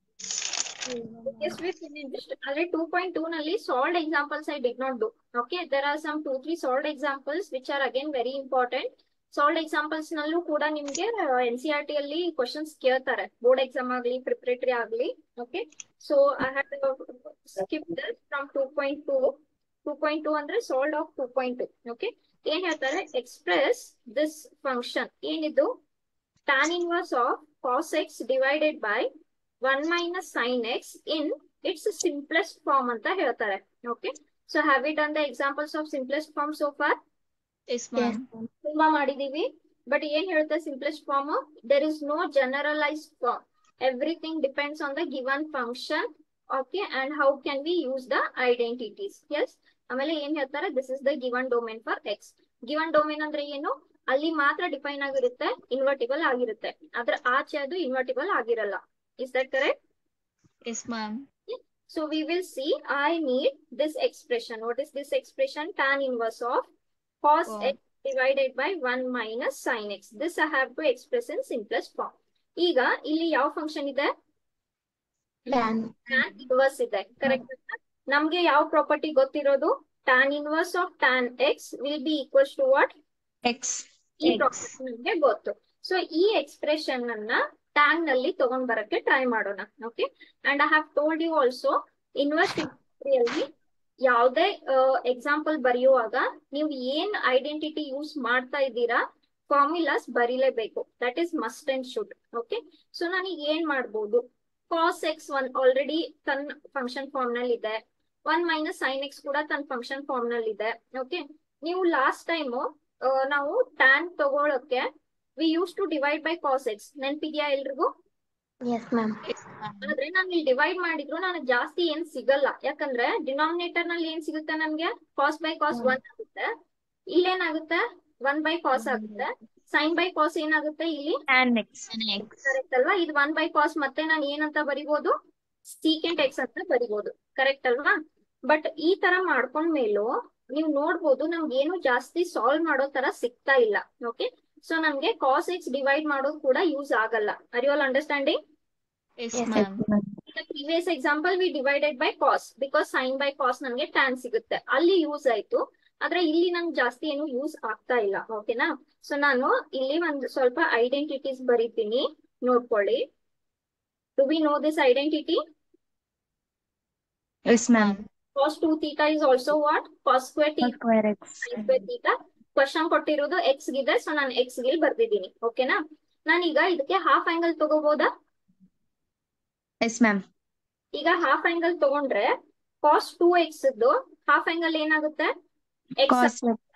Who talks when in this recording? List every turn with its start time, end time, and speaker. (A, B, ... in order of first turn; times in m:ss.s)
0:00.8-0:01.6 A
0:01.2-0:25.7 B
0:26.5-0:29.1 B
0:29.6-0:37.0 B
0:37.7-0:38.2 C
0:38.0-0:38.5 A
0:38.6-0:59.8 B
1:00.6-1:01.3 C
1:01.5-1:06.7 B
1:07.2-1:14.1 B
1:07.5-1:07.8 C
1:15.5-1:16.3 A
1:16.1-1:22.9 B
1:23.4-1:23.8 D
1:24.2-1:33.5 B
1:34.1-1:54.9 B
1:55.4-1:57.9 B
1:58.6-1:59.2 A
1:59.3-1:59.9 C
1:59.8-2:06.5 B
2:07.1-2:11.2 B
2:08.8-2:09.3 C
2:11.3-2:11.9 D
2:11.9-2:12.5 C
2:12.3-2:15.1 B
2:15.8-2:28.4 B
2:29.2-2:29.8 C
2:29.3-2:29.6 A
2:29.5-2:30.1 D
2:30.3-2:43.0 B
2:44.2-2:45.4 B
2:47.5-2:48.0 D
2:47.7-2:48.0 C
2:48.4-2:50.8 B
2:50.6-2:51.5 D
2:51.4-2:58.1 B
2:59.8-3:00.2 D
3:00.9-3:05.3 B
3:06.0-3:06.3 B
3:06.1-3:06.6 D